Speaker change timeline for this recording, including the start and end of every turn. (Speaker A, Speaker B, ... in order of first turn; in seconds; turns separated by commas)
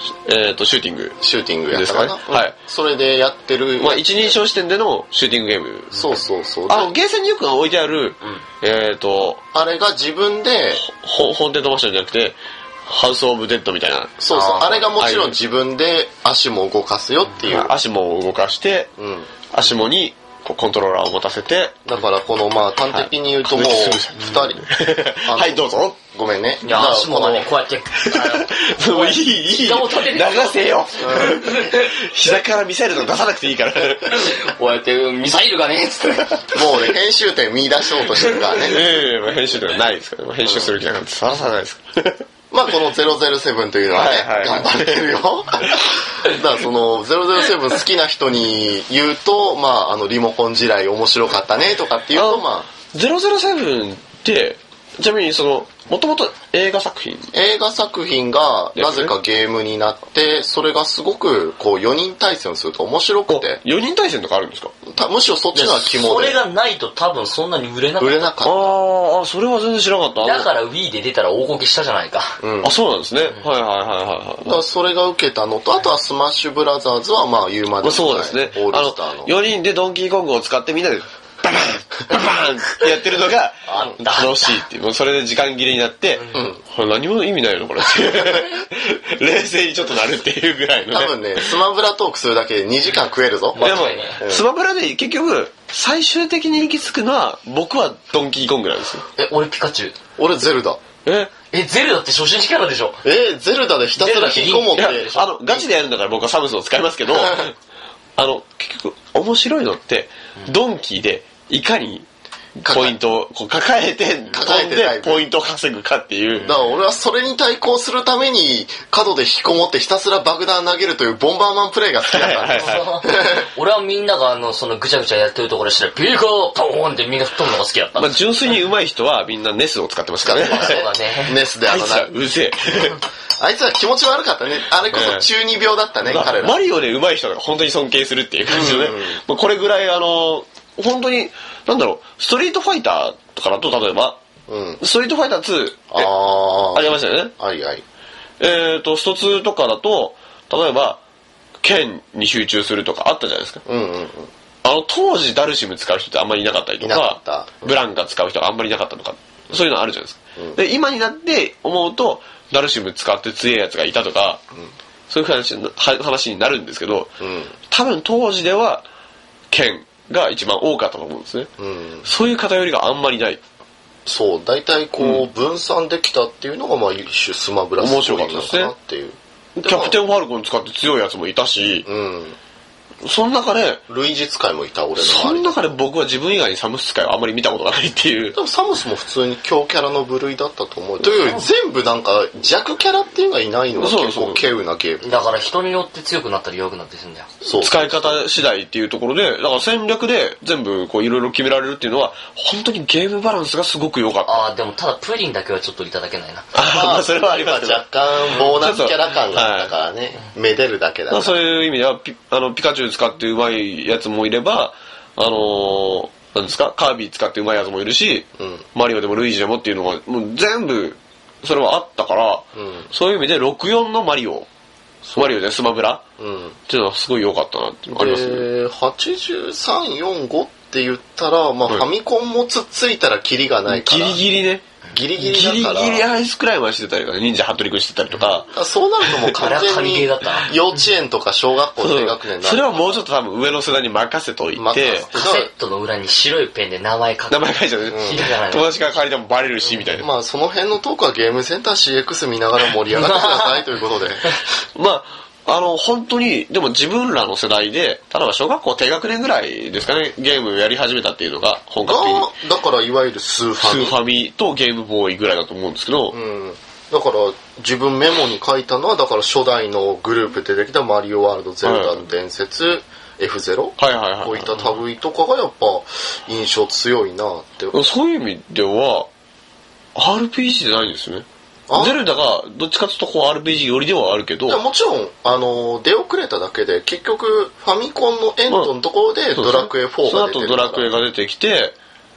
Speaker A: 0.2-1.2, Speaker B: 1.2-4.4, Speaker A: 1.7-2.5, Speaker A: 3.8-6.0, Speaker B: 5.9-6.9, Speaker A: 6.7-9.4, Speaker B: 9.5-10.8, Speaker A: 10.8-14.2, Speaker B: 14.2-17.7, Speaker C: 14.3-14.9, Speaker A: 15.0-15.4, Speaker A: 17.4-18.9, Speaker B: 19.0-19.3, Speaker A: 19.5-21.8, Speaker B: 21.9-24.6, Speaker A: 22.9-26.1, Speaker B: 25.3-27.5, Speaker C: 26.6-31.9, Speaker A: 28.0-34.3, Speaker B: 31.0-31.4, Speaker C: 34.1-36.8, Speaker B: 36.5-38.9, Speaker C: 38.2-38.6, Speaker A: 38.6-42.2, Speaker B: 40.4-40.7, Speaker B: 42.5-52.7, Speaker A: 43.9-45.0, Speaker A: 45.6-45.9, Speaker A: 52.1-57.3, Speaker B: 57.3-63.6, Speaker A: 58.8-59.1, Speaker A: 63.3-64.7, Speaker B: 64.9-66.4, Speaker C: 65.5-68.3, Speaker B: 68.0-68.7, Speaker A: 68.4-70.5, Speaker C: 70.2-72.4, Speaker B: 72.4-72.8, Speaker A: 72.6-74.6, Speaker B: 74.4-79.3, Speaker A: 77.8-91.5, Speaker C: 83.7-84.6, Speaker C: 86.2-86.4, Speaker B: 86.3-86.6, Speaker B: 90.9-94.4, Speaker C: 93.5-94.2, Speaker A: 93.6-99.0, Speaker C: 99.2-100.0, Speaker B: 100.2-100.8, Speaker A: 101.1-101.3, Speaker C: 101.5-103.0, Speaker B: 103.0-105.7, Speaker C: 104.0-105.3, Speaker A: 104.8-107.5, Speaker B: 107.1-107.4, Speaker A: 108.2-116.6, Speaker B: 112.7-113.0, Speaker B: 114.3-115.2, Speaker C: 116.4-116.8, Speaker B: 116.5-123.5, Speaker A: 122.1-123.0, Speaker C: 122.5-128.5, Speaker A: 128.0-130.8, Speaker B: 130.2-132.1, Speaker C: 130.4-131.4, Speaker A: 131.7-133.0, Speaker B: 132.8-136.6, Speaker A: 134.9-135.3, Speaker A: 136.1-144.2, Speaker B: 138.5-139.2, Speaker B: 144.5-144.8, Speaker A: 144.8-146.1, Speaker B: 145.9-147.8, Speaker A: 146.7-147.3, Speaker A: 148.4-151.0, Speaker A: 151.6-153.6, Speaker B: 153.7-154.3, Speaker A: 154.6-164.4, Speaker B: 156.8-157.7, Speaker A: 165.1-167.2, Speaker B: 167.2-167.5, Speaker A: 167.7-168.9, Speaker A: 169.5-171.5, Speaker B: 171.6-172.1, Speaker A: 172.0-173.4, Speaker B: 174.1-180.0, Speaker A: 177.8-178.7, Speaker A: 179.6-181.9, Speaker B: 181.8-182.4, Speaker A: 183.0-183.8, Speaker B: 183.9-185.6, Speaker A: 185.0-188.4, Speaker B: 188.3-195.1, Speaker C: 191.1-191.5, Speaker A: 193.8-194.4, Speaker C: 195.0-197.3, Speaker B: 197.4-198.2, Speaker A: 197.5-204.4, Speaker C: 204.3-206.5, Speaker A: 206.5-209.7, Speaker B: 206.6-211.4, Speaker A: 211.1-224.5, Speaker B: 218.4-218.7, Speaker B: 222.6-222.9, Speaker B: 225.1-225.4, Speaker A: 225.2-226.0, Speaker B: 226.2-226.6, Speaker A: 226.7-228.5, Speaker B: 227.9-234.2, Speaker A: 233.7-238.5, Speaker B: 234.9-236.1, Speaker B: 238.5-243.0, Speaker A: 239.0-239.4, Speaker C: 239.3-240.6, Speaker A: 241.8-245.1, Speaker B: 244.6-245.5, Speaker C: 245.1-248.7, Speaker A: 247.3-250.1, Speaker B: 247.9-248.2, Speaker B: 250.0-254.4, Speaker C: 252.9-253.7, Speaker A: 254.8-262.3, Speaker B: 261.8-264.0, Speaker A: 263.6-266.1, Speaker B: 266.1-277.8, Speaker A: 271.6-272.0, Speaker A: 273.8-274.8, Speaker A: 277.7-279.1, Speaker A: 279.9-284.6, Speaker B: 281.7-282.0, Speaker B: 284.5-290.9, Speaker A: 289.3-291.8